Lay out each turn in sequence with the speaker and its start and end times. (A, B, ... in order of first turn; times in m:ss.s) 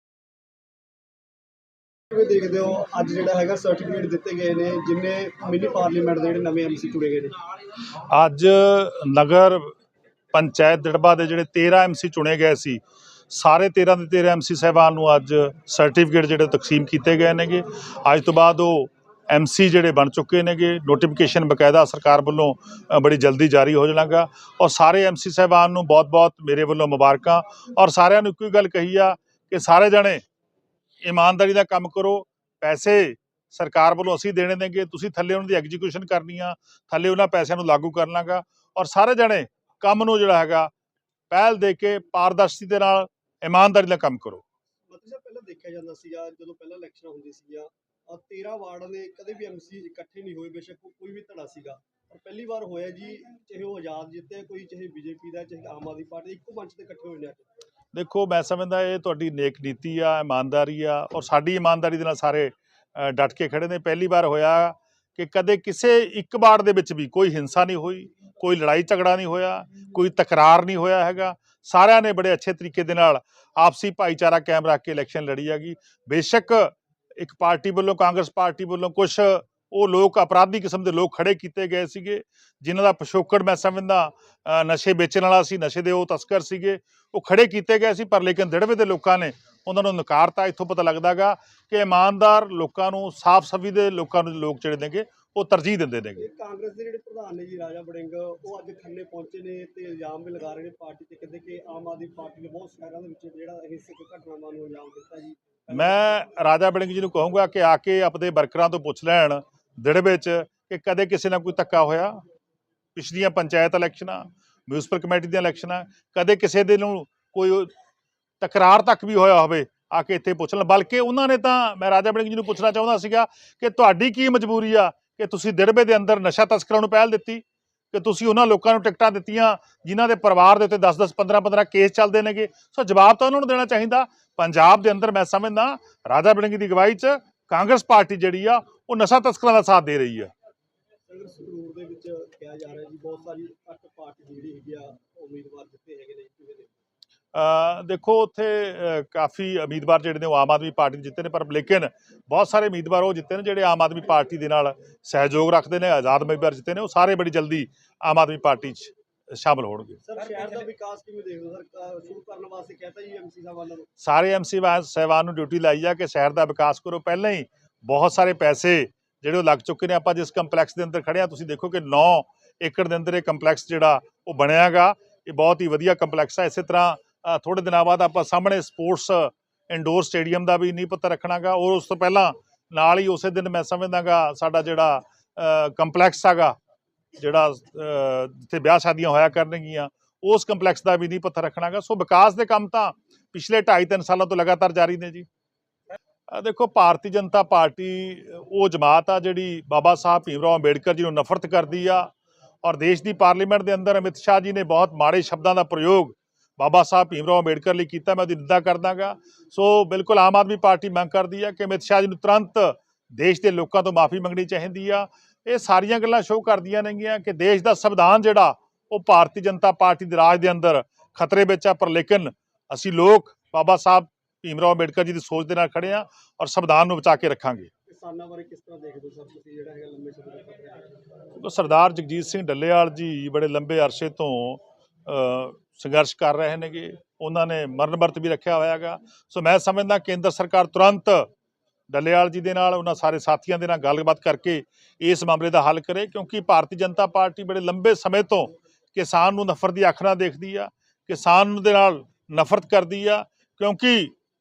0:02.1-0:07.4 A
0:08.1-0:09.7 B
0:10.3-0:30.2 B
0:31.0-0:40.7 B
0:41.3-0:44.4 B
0:44.9-0:57.4 A
0:57.9-1:36.3 B
1:36.2-1:46.2 A
1:45.7-1:52.2 B
1:53.0-1:57.7 B
1:58.4-2:20.3 B
2:21.1-2:26.7 A
2:27.3-2:40.0 B
2:40.0-2:43.9 A
2:44.0-3:06.6 B
3:07.2-3:15.2 B
3:16.3-3:22.1 B
3:22.6-3:47.7 B
3:47.9-3:51.0 A
3:51.4-4:01.3 B
4:01.9-4:14.1 B